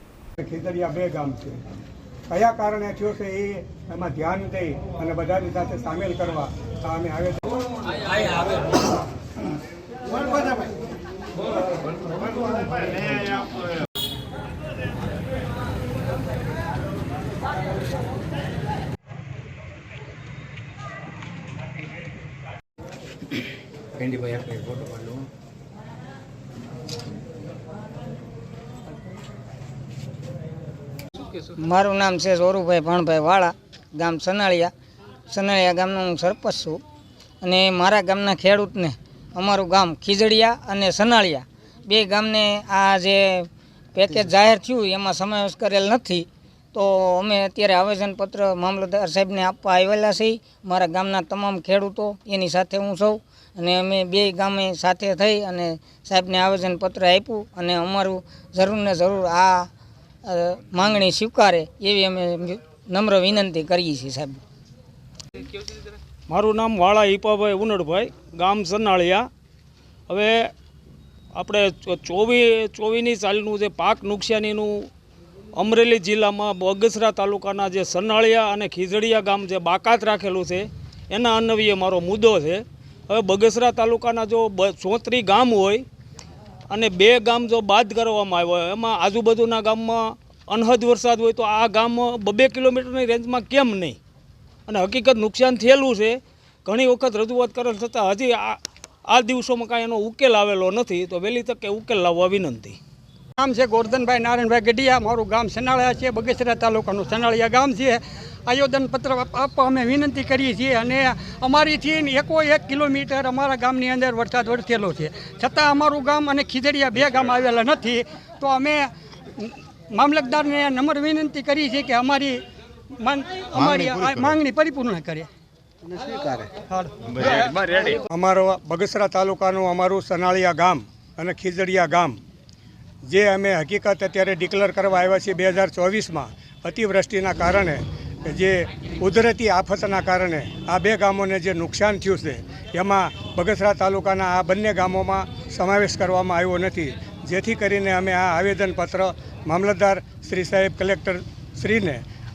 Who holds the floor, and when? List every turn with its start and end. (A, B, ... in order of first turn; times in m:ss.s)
0:00.4-0:01.6 A
0:02.3-0:08.4 A
0:24.6-0:25.1 B
0:31.3-0:34.7 C
0:35.3-0:36.8 C
0:37.4-0:59.7 C
1:00.2-1:04.4 C
1:06.3-1:09.3 D
1:10.1-1:10.5 D
1:11.3-1:14.9 D
1:15.5-1:25.8 D
1:26.7-1:34.0 D
1:34.7-1:42.8 D
1:43.4-1:58.9 E
1:59.4-2:02.4 E
2:03.0-2:05.3 E
2:03.5-2:04.3 B
2:05.9-2:08.0 E
2:07.1-2:08.0 B
2:08.1-2:12.2 A
2:13.0-2:32.0 A